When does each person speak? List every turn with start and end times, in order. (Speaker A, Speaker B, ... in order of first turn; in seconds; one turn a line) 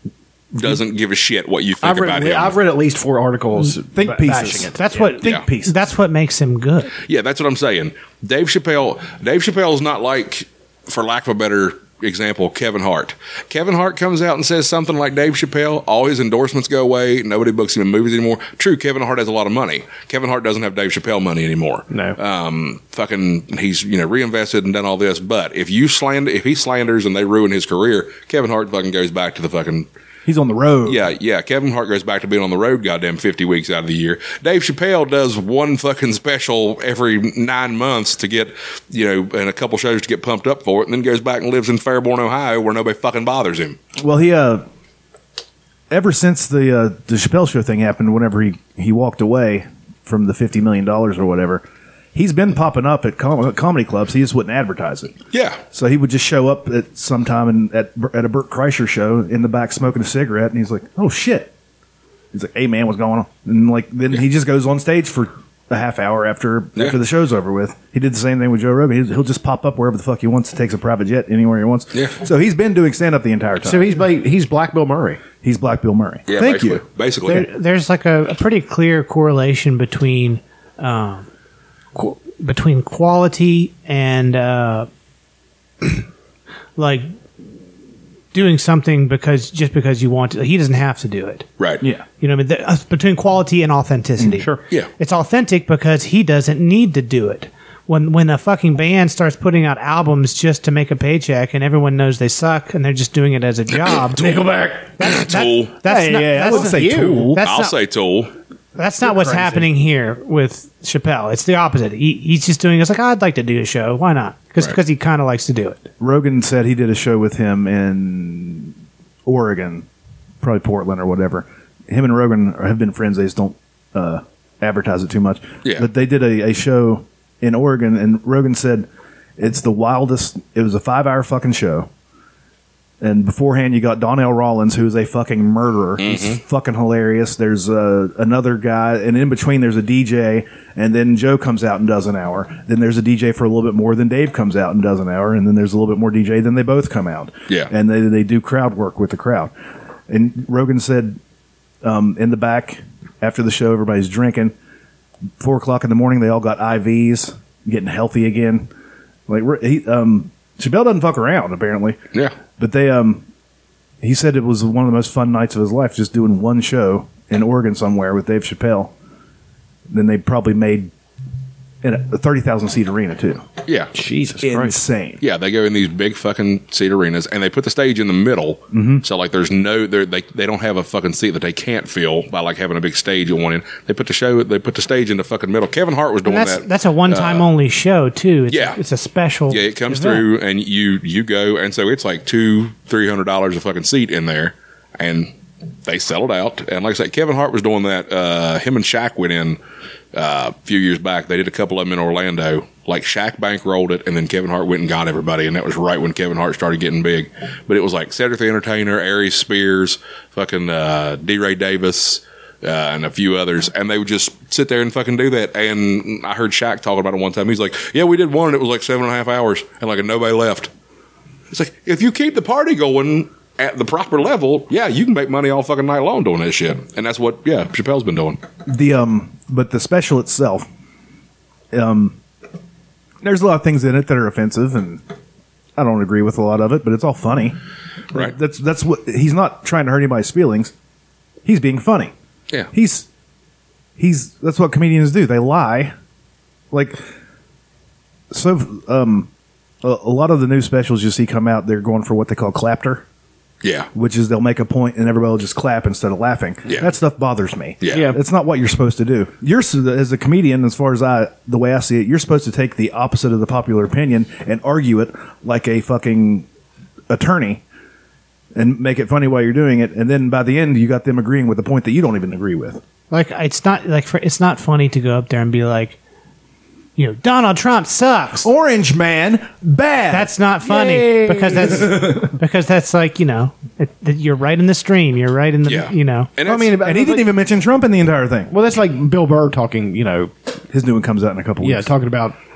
Speaker A: 0.5-2.6
Speaker B: 1.8-5.1
Speaker C: 3.9-5.8
Speaker D: 4.8-6.9
Speaker A: 7.0-29.9
Speaker B: 21.9-22.2
Speaker C: 30.3-31.0
Speaker A: 30.9-43.8
Speaker C: 44.0-44.6
Speaker C: 45.9-55.2
Speaker A: 55.3-55.6
Speaker C: 55.7-61.5
Speaker C: 62.3-74.1
Speaker B: 73.6-75.2
Speaker C: 75.4-76.8
Speaker A: 76.3-77.5
Speaker D: 77.2-81.3
Speaker D: 82.0-84.9
Speaker D: 86.8-87.1
Speaker D: 88.3-91.5
Speaker D: 92.2-104.2
Speaker B: 104.2-104.9
Speaker D: 105.0-107.8
Speaker A: 105.0-105.7
Speaker C: 105.9-107.4
Speaker B: 106.1-107.3
Speaker A: 107.4-108.3
Speaker D: 108.8-115.9
Speaker B: 109.0-109.7
Speaker C: 116.0-118.7
Speaker C: 119.3-119.9
Speaker C: 120.4-131.9
Speaker C: 133.0-149.5
Speaker A: 136.0-136.4
Speaker C: 150.1-151.2
Speaker C: 151.8-154.5
Speaker C: 155.4-158.7
Speaker C: 159.3-162.0
Speaker C: 162.6-163.2
Speaker C: 164.0-168.9
Speaker C: 169.9-170.9
Speaker C: 171.8-173.4
Speaker A: 173.7-173.9
Speaker B: 173.9-174.8
Speaker C: 174.4-175.2
Speaker A: 175.2-187.5
Speaker C: 178.7-179.0
Speaker D: 186.2-190.2
Speaker A: 188.5-188.8
Speaker A: 189.5-195.3
Speaker A: 195.9-199.6
Speaker A: 200.1-220.7
Speaker A: 221.5-228.4
Speaker C: 228.7-230.7
Speaker C: 231.7-232.2
Speaker C: 233.2-235.0
Speaker C: 235.8-237.6
Speaker C: 238.1-240.7
Speaker C: 241.4-242.1
Speaker C: 242.7-243.1
Speaker C: 244.0-245.9
Speaker C: 246.7-247.0
Speaker C: 248.3-249.3
Speaker C: 249.8-253.1
Speaker A: 253.6-253.9
Speaker C: 253.9-266.5
Speaker A: 256.7-256.9
Speaker A: 257.8-258.1
Speaker B: 257.9-258.2
Speaker C: 267.1-267.6
Speaker C: 268.6-272.8
Speaker D: 273.1-276.0
Speaker D: 277.0-278.5
Speaker C: 278.4-280.3
Speaker D: 280.1-286.3
Speaker B: 280.6-281.9
Speaker C: 281.6-282.3
Speaker A: 285.6-286.7
Speaker B: 286.4-287.3
Speaker C: 286.5-288.5
Speaker B: 288.5-290.3
Speaker C: 290.7-291.9
Speaker B: 291.6-292.4